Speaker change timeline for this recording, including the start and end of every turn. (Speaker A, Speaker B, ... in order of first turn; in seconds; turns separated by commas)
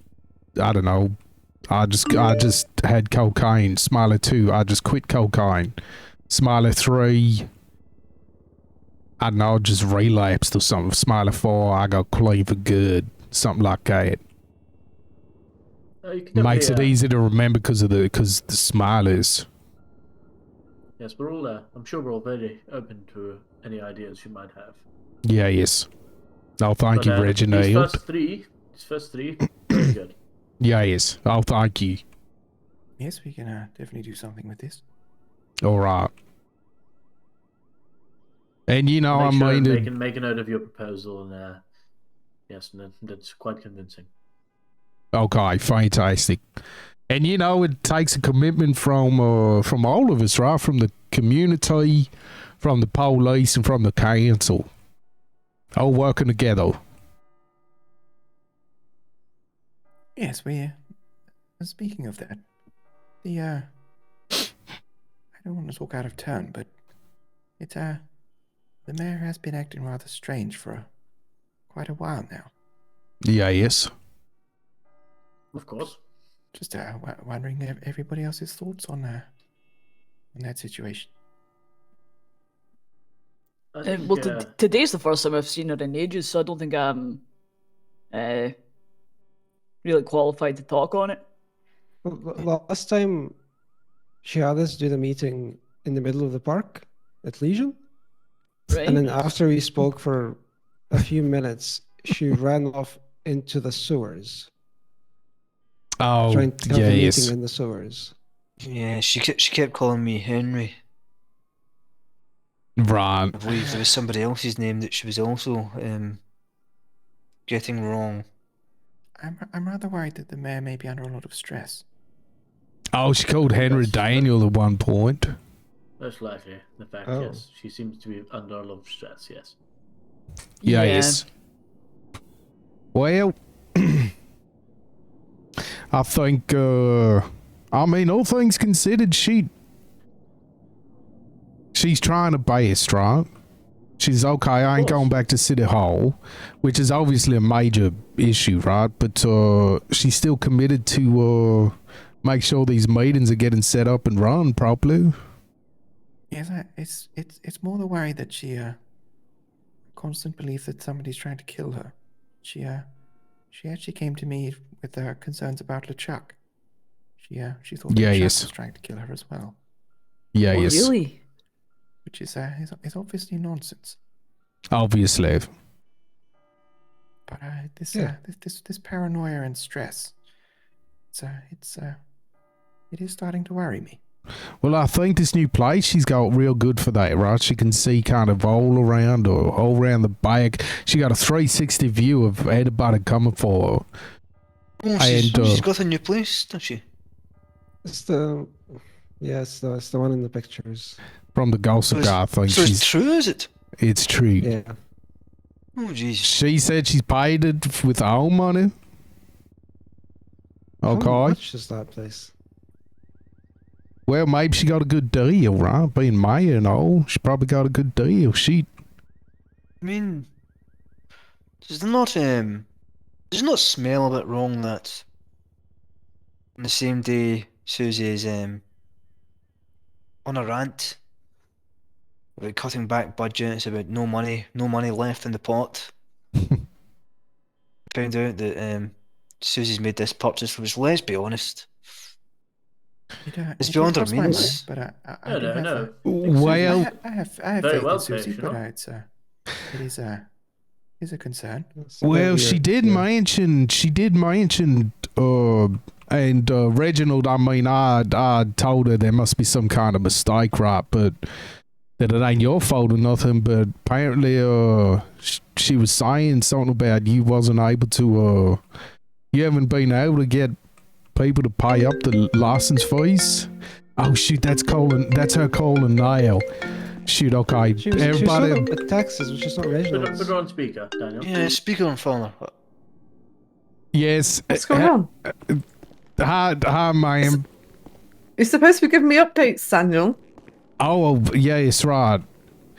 Speaker A: 0.6-1.1, Speaker A: 1.7-5.8, Speaker A: 6.3-7.5, Speaker A: 9.2-14.2, Speaker B: 16.0-17.0, Speaker A: 16.4-19.5, Speaker B: 21.0-24.8, Speaker A: 25.3-25.9, Speaker A: 26.6-28.0, Speaker B: 26.9-30.2, Speaker A: 30.6-32.0, Speaker C: 33.0-34.8, Speaker A: 35.6-36.1, Speaker A: 38.7-39.9, Speaker B: 39.1-41.6, Speaker B: 42.5-44.1, Speaker A: 45.1-46.4, Speaker A: 47.1-52.1, Speaker A: 52.6-54.7, Speaker A: 55.8-56.8, Speaker C: 60.2-60.8, Speaker C: 61.6-62.4, Speaker C: 63.2-63.7, Speaker C: 65.4-66.7, Speaker C: 67.6-68.0, Speaker C: 68.9-70.9, Speaker C: 71.7-72.5, Speaker A: 73.3-73.9, Speaker B: 75.5-76.0, Speaker C: 76.5-79.3, Speaker C: 80.3-81.1, Speaker B: 83.7-84.5, Speaker D: 83.8-87.2, Speaker D: 88.1-88.5, Speaker D: 89.8-91.2, Speaker E: 92.0-93.3, Speaker E: 94.2-97.8, Speaker D: 98.7-99.2, Speaker E: 98.8-100.4, Speaker E: 100.9-104.5, Speaker A: 106.0-107.3, Speaker E: 106.3-108.1, Speaker F: 108.6-110.8, Speaker A: 112.8-113.4, Speaker F: 113.3-116.2, Speaker C: 113.5-113.9, Speaker F: 117.5-118.3, Speaker C: 119.2-121.8, Speaker A: 122.9-125.3, Speaker B: 123.4-124.4, Speaker B: 126.0-129.6, Speaker E: 127.1-127.4, Speaker D: 130.6-131.2, Speaker A: 130.7-131.3, Speaker A: 132.9-134.1, Speaker A: 135.9-139.5, Speaker A: 141.7-143.3, Speaker A: 144.0-155.1, Speaker B: 144.7-145.1, Speaker C: 156.3-158.8, Speaker C: 159.9-162.9, Speaker C: 163.5-166.4, Speaker C: 167.2-169.6, Speaker A: 167.9-168.5, Speaker A: 170.3-170.9, Speaker D: 170.5-171.2, Speaker C: 172.1-174.0, Speaker A: 174.7-175.5, Speaker C: 177.3-180.2, Speaker C: 181.1-182.0, Speaker C: 182.9-184.0, Speaker A: 184.6-193.8, Speaker F: 194.8-196.8, Speaker A: 195.0-195.6, Speaker E: 197.8-201.0, Speaker A: 201.3-202.8, Speaker F: 201.9-203.5, Speaker A: 203.8-204.5, Speaker E: 204.4-204.8, Speaker F: 205.8-206.3, Speaker A: 206.2-208.7, Speaker A: 210.8-211.4, Speaker E: 210.9-212.3, Speaker A: 214.1-218.7, Speaker F: 219.8-220.3, Speaker F: 221.6-222.7, Speaker F: 223.3-225.1, Speaker F: 226.6-228.6, Speaker F: 230.2-231.0, Speaker F: 232.4-235.9, Speaker F: 237.9-241.7, Speaker C: 243.2-249.1, Speaker F: 243.6-244.7, Speaker B: 245.2-246.9, Speaker A: 246.1-246.9, Speaker B: 247.6-248.6, Speaker C: 249.7-250.3, Speaker C: 251.0-251.7, Speaker E: 251.8-253.1, Speaker A: 252.0-261.1, Speaker A: 262.0-268.6, Speaker A: 269.3-270.5, Speaker A: 271.1-276.4, Speaker A: 277.1-278.7, Speaker E: 277.8-280.3, Speaker B: 279.9-281.4, Speaker F: 281.2-282.5, Speaker A: 283.9-284.9, Speaker G: 284.5-285.1, Speaker A: 286.2-287.4, Speaker G: 288.4-290.2, Speaker A: 290.8-292.2